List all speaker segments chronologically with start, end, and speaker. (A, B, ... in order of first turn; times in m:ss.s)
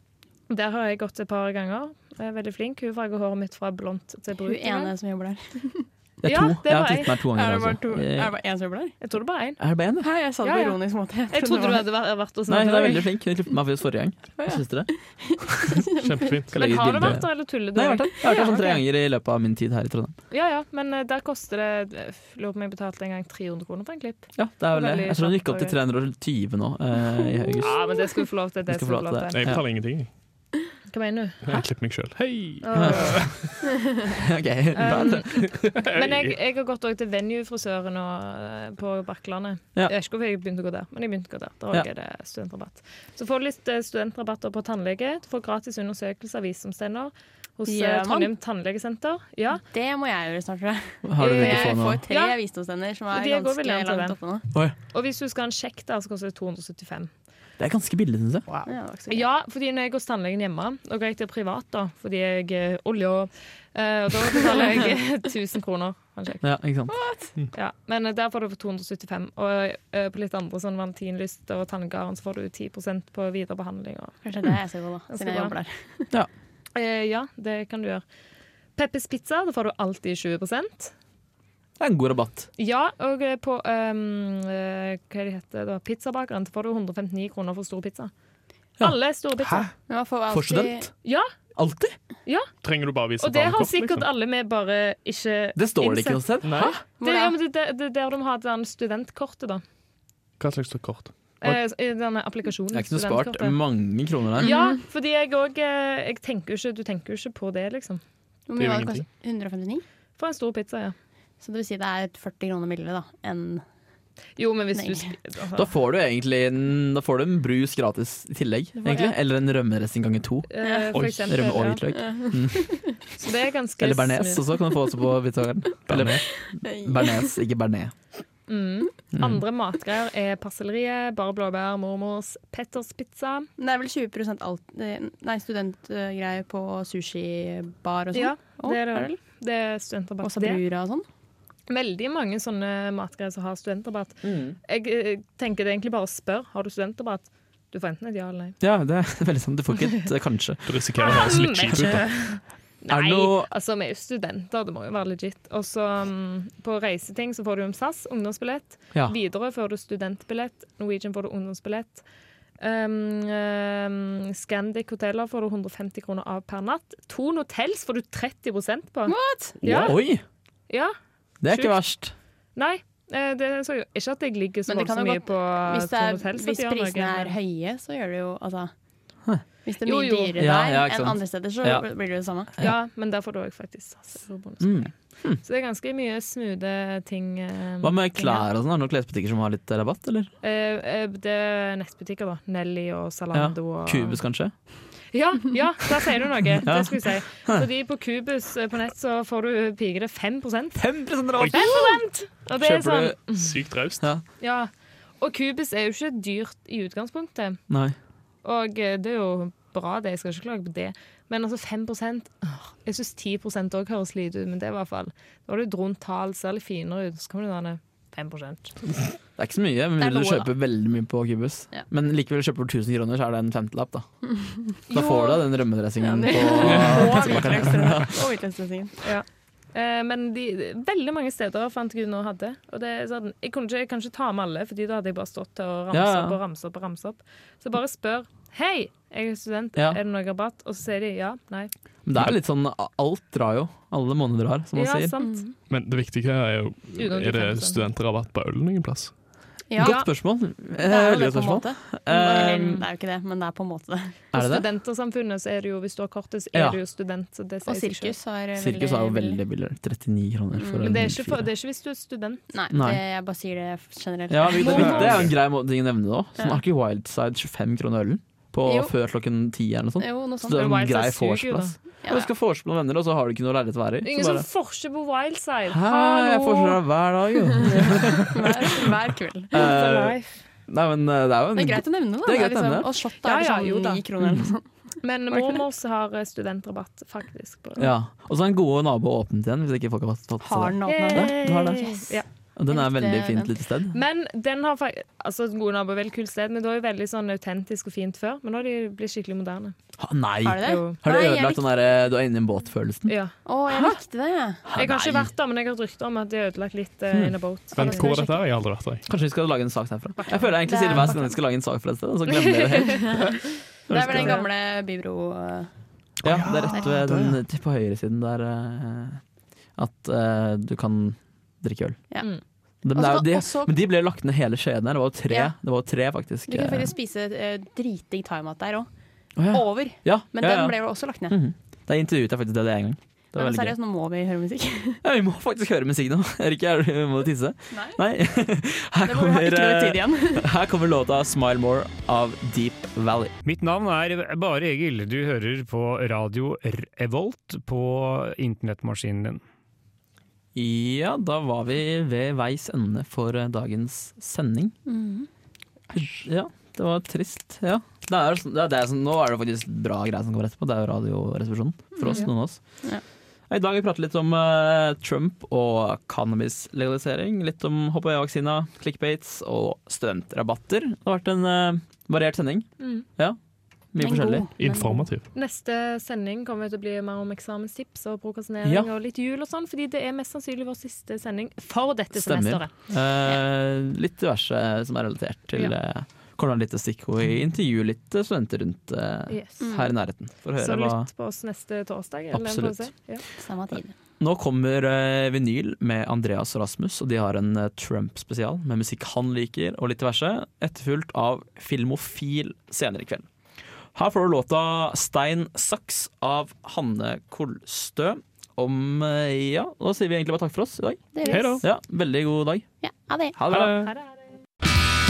0:00.5-0:04.9 A
0:04.4-0:05.9 B
0:06.2-0:08.3 C
0:06.2-0:07.1 A
0:07.3-0:09.0 B
0:09.0-0:09.6 A
0:09.6-0:10.1 C
0:10.0-0:11.8 B
0:10.4-0:13.1 A
0:12.5-0:14.9 C
0:14.4-0:16.4 B
0:15.4-0:15.8 C
0:16.0-0:17.1 D
0:16.5-0:20.1 C
0:16.5-0:18.8 A
0:20.3-0:25.8 A
0:24.3-0:28.0 C
0:27.6-0:29.6 A
0:28.6-0:29.7 C
0:29.3-0:30.1 D
0:30.9-0:31.4 A
0:31.4-0:33.5 D
0:32.6-0:33.2 A
0:32.7-0:33.5 C
0:34.1-0:35.7 C
0:34.7-0:49.6 A
0:35.3-0:36.3 D
0:47.7-0:48.3 B
0:49.7-0:54.5 B
0:51.0-0:52.0 C
0:51.2-0:52.4 A
0:53.1-0:54.2 A
0:54.9-0:57.1 A
0:57.6-0:58.5 C
0:58.6-0:59.3 B
0:59.1-1:06.4 A
1:06.4-1:07.0 C
1:06.9-1:07.3 B
1:07.5-1:14.2 A
1:14.2-1:16.1 B
1:15.1-1:15.6 A
1:16.7-1:18.0 A
1:18.7-1:20.9 A
1:21.8-1:22.5 C
1:22.6-1:28.1 A
1:28.8-1:29.7 A
1:29.9-1:30.9 B
1:30.3-1:30.9 C
1:31.0-1:31.3 A
1:31.5-1:32.0 C
1:32.6-1:34.0 D
1:33.2-1:39.6 A
1:35.6-1:36.8 C
1:36.4-1:36.7 D
1:37.0-1:37.3 B
1:40.4-1:41.6 D
1:41.4-1:43.6 A
1:42.7-1:44.5 C
1:44.4-1:48.0 A
1:48.5-1:49.8 B
1:48.6-1:49.0 D
1:50.2-1:50.9 A
1:51.4-1:53.6 B
1:54.4-1:55.7 A
1:54.7-1:55.1 B
1:55.5-2:02.9 C
2:00.5-2:01.8 A
2:00.9-2:01.2 D
2:01.9-2:02.8 B
2:03.2-2:04.4 A
2:03.8-2:07.9 C
2:05.9-2:06.2 D
2:06.6-2:07.3 B
2:08.5-2:13.5 A
2:09.1-2:09.4 C
2:13.6-2:19.2 B
2:18.1-2:20.6 A
2:20.2-2:21.0 B
2:21.7-2:28.6 A
2:24.2-2:24.6 C
2:28.6-2:31.1 C
2:30.6-2:32.1 D
2:31.0-2:42.0 A
2:32.9-2:33.5 C
2:42.6-2:50.0 A
2:49.1-2:49.6 B
2:49.6-2:50.2 C
2:50.7-2:50.9 A
2:51.4-2:52.1 C
2:51.5-2:51.8 A
2:52.5-2:57.4 A
2:54.7-2:58.7 B
2:59.6-3:02.5 B
2:59.8-3:00.3 A
3:00.4-3:01.8 C
3:02.6-3:08.4 A
3:04.6-3:05.4 C
3:07.8-3:10.3 C
3:10.4-3:14.2 A
3:13.3-3:14.5 C
3:15.1-3:20.8 A
3:16.6-3:17.7 C
3:20.7-3:22.0 C
3:21.3-3:23.6 A
3:21.4-3:21.6 D
3:22.5-3:23.2 C
3:23.3-3:24.0 D
3:24.4-3:27.6 A
3:27.7-3:28.0 C
3:28.4-3:38.8 A
3:39.4-3:44.0 C
3:40.0-3:40.5 B
3:44.9-3:45.4 A
3:44.9-3:48.2 C
3:44.9-3:45.4 B
3:46.0-3:49.0 B
3:46.6-3:47.9 D
3:49.0-4:01.7 A
3:55.9-3:56.4 C
3:59.7-4:00.0 C
4:02.0-4:05.2 C
4:04.7-4:05.4 A
4:05.2-4:05.5 B
4:05.7-4:09.1 D
4:06.9-4:07.9 A
4:09.7-4:10.2 B
4:09.8-4:12.8 C
4:09.8-4:10.1 A
4:10.8-4:14.2 B
4:12.1-4:12.8 A
4:14.3-4:14.6 C
4:14.3-4:18.1 A
4:16.5-4:16.8 C
4:17.6-4:19.4 B
4:18.6-4:21.5 C
4:20.6-4:21.1 B
4:20.8-4:22.4 A
4:22.5-4:25.3 B
4:22.7-4:23.0 C
4:24.3-4:34.4 C
4:24.5-4:25.2 A
4:24.7-4:25.3 D
4:28.6-4:28.9 B
4:30.0-4:30.7 B
4:30.5-4:31.8 A
4:34.0-4:36.8 A
4:35.7-4:38.9 C
4:37.6-4:39.7 B
4:39.5-4:42.9 C
4:39.5-4:40.4 A
4:41.5-4:44.7 B
4:43.2-4:44.0 A
4:44.2-4:44.5 C
4:45.0-4:47.9 A
4:45.3-4:45.6 B
4:47.8-4:54.0 C
4:50.4-4:51.4 B
4:50.8-4:52.2 A
4:52.7-4:53.5 B
4:53.9-4:59.8 A
5:00.0-5:03.1 C
5:00.4-5:01.7 B
5:00.6-5:01.0 A
5:03.0-5:03.3 A
5:03.4-5:04.6 B
5:03.7-5:04.0 C
5:04.6-5:05.3 C
5:04.7-5:08.2 A
5:07.1-5:07.4 C
5:07.7-5:09.0 D
5:07.8-5:08.4 B
5:09.0-5:13.2 C
5:10.6-5:11.3 B
5:12.3-5:13.2 A
5:13.9-5:14.4 C
5:13.9-5:15.7 B
5:14.1-5:14.4 A
5:16.2-5:19.2 C
5:16.2-5:17.4 D
5:19.8-5:22.1 C
5:22.8-5:26.9 C
5:22.9-5:23.7 B
5:26.5-5:28.9 B
5:29.4-5:33.8 C
5:29.5-5:31.4 B
5:33.3-5:35.0 B
5:35.0-5:43.3 C
5:37.7-5:38.0 B
5:39.0-5:40.5 B
5:43.4-5:49.4 E
5:50.5-5:54.7 C
5:54.8-5:55.3 B
5:55.9-6:02.6 C
6:02.0-6:03.0 B
6:03.5-6:13.4 C
6:12.8-6:13.0 A
6:13.9-6:14.5 C
6:14.0-6:15.1 B
6:14.6-6:15.2 D
6:15.3-6:22.7 A
6:18.6-6:18.9 C
6:22.1-6:31.1 C
6:29.3-6:29.6 A
6:29.6-6:29.9 B
6:30.6-6:33.2 A
6:32.3-6:32.9 C
6:33.4-6:33.9 B
6:34.2-6:43.3 C
6:43.9-6:52.7 C
6:51.1-6:51.6 B
6:51.2-6:51.6 A
6:51.3-6:51.6 D
6:52.8-6:53.4 B
6:53.3-6:53.8 C
6:53.5-6:53.9 D
6:53.8-6:54.2 A